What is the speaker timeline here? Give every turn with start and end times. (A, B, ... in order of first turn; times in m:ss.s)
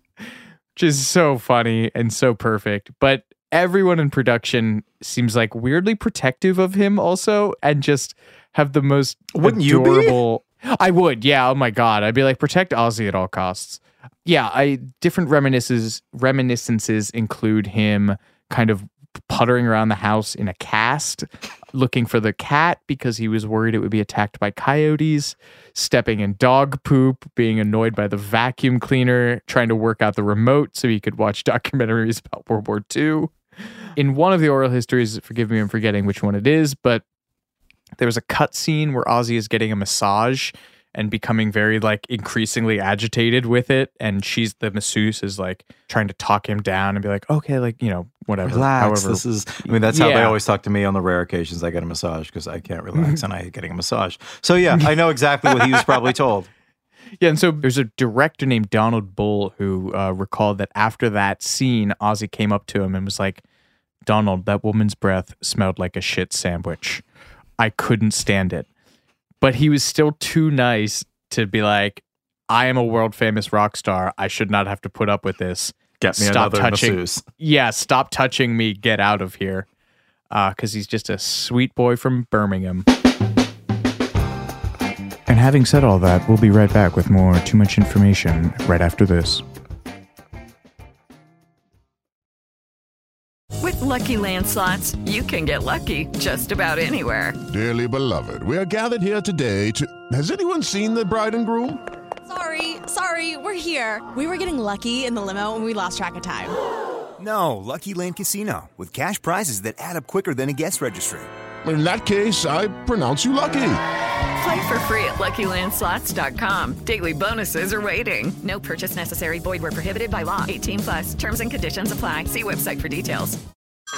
0:00.8-0:33.3 A
0:09.3-0:10.2 B
0:34.0-0:37.0 A
0:38.0-0:50.4 A
0:48.4-0:56.5 B
0:53.0-0:53.2 A
0:55.5-0:56.1 A
0:57.2-1:03.4 A
1:04.0-1:07.0 A
1:07.6-1:08.7 A
1:09.4-1:19.7 A
1:16.0-1:17.2 B
1:20.3-1:22.8 A
1:25.3-1:29.4 A
1:33.6-1:37.4 C
1:37.5-1:41.8 D
1:42.2-1:46.5 E
1:47.2-1:51.3 F
1:51.6-1:53.8 D
1:54.4-2:03.4 C